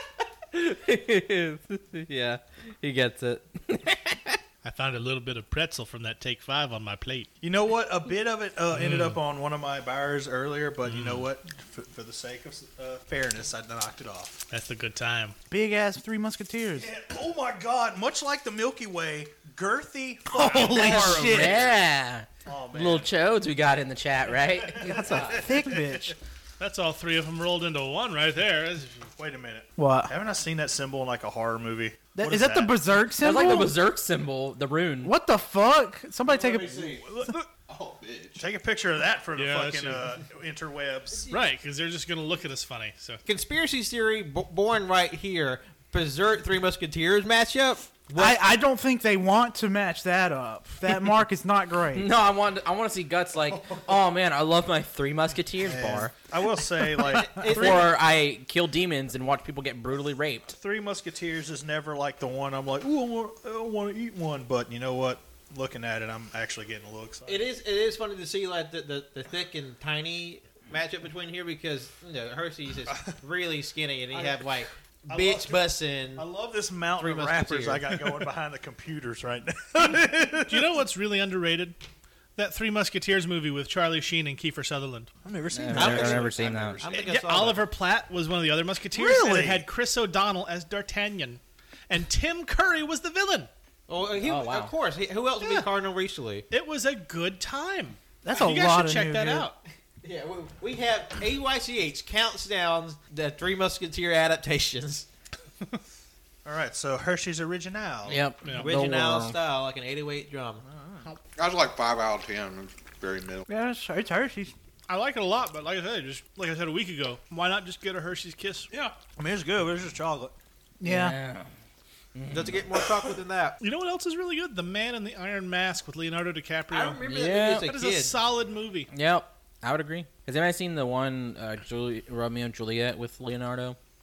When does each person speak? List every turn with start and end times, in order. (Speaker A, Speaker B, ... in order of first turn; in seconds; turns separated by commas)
Speaker A: 0.5-4.4, Speaker B: 4.6-7.3, Speaker C: 7.4-14.4, Speaker B: 8.7-9.2, Speaker B: 10.8-11.3, Speaker B: 14.5-15.4, Speaker D: 15.5-16.9, Speaker C: 16.8-21.8, Speaker D: 20.3-21.7, Speaker A: 20.6-25.5, Speaker C: 22.4-23.1, Speaker C: 24.6-26.1, Speaker D: 24.9-26.2, Speaker B: 26.6-29.1, Speaker C: 29.2-33.0, Speaker D: 29.8-30.1, Speaker D: 32.1-33.8, Speaker A: 33.2-35.1, Speaker D: 35.0-37.2, Speaker E: 36.3-38.5, Speaker C: 37.2-37.5, Speaker C: 38.4-41.5, Speaker B: 39.4-40.1, Speaker B: 41.3-43.2, Speaker F: 43.3-48.4, Speaker D: 48.2-52.1, Speaker A: 51.9-56.1, Speaker C: 55.6-57.9, Speaker F: 57.0-58.0, Speaker A: 57.4-60.5, Speaker C: 60.5-67.5, Speaker F: 67.3-76.3, Speaker C: 74.1-74.6, Speaker C: 75.1-80.8, Speaker F: 77.0-77.9, Speaker B: 80.5-81.8, Speaker B: 82.4-85.1, Speaker C: 85.3-86.2, Speaker A: 85.5-86.8, Speaker E: 85.7-87.1, Speaker F: 85.8-87.7, Speaker B: 87.1-93.5, Speaker C: 88.9-89.7, Speaker F: 93.9-96.5, Speaker A: 94.2-94.7, Speaker B: 96.5-99.5, Speaker D: 98.2-99.5, Speaker F: 100.0-105.1, Speaker C: 106.5-108.2, Speaker A: 108.1-109.4, Speaker B: 108.4-108.7, Speaker F: 108.5-110.6, Speaker C: 110.7-111.1, Speaker E: 111.4-113.5, Speaker D: 113.5-114.5, Speaker B: 114.9-118.7, Speaker C: 118.7-120.3, Speaker D: 120.8-121.2, Speaker A: 120.8-121.5, Speaker A: 122.2-122.6, Speaker F: 122.3-123.6, Speaker B: 123.6-128.9, Speaker F: 126.7-128.2, Speaker A: 127.1-127.7, Speaker A: 128.9-133.8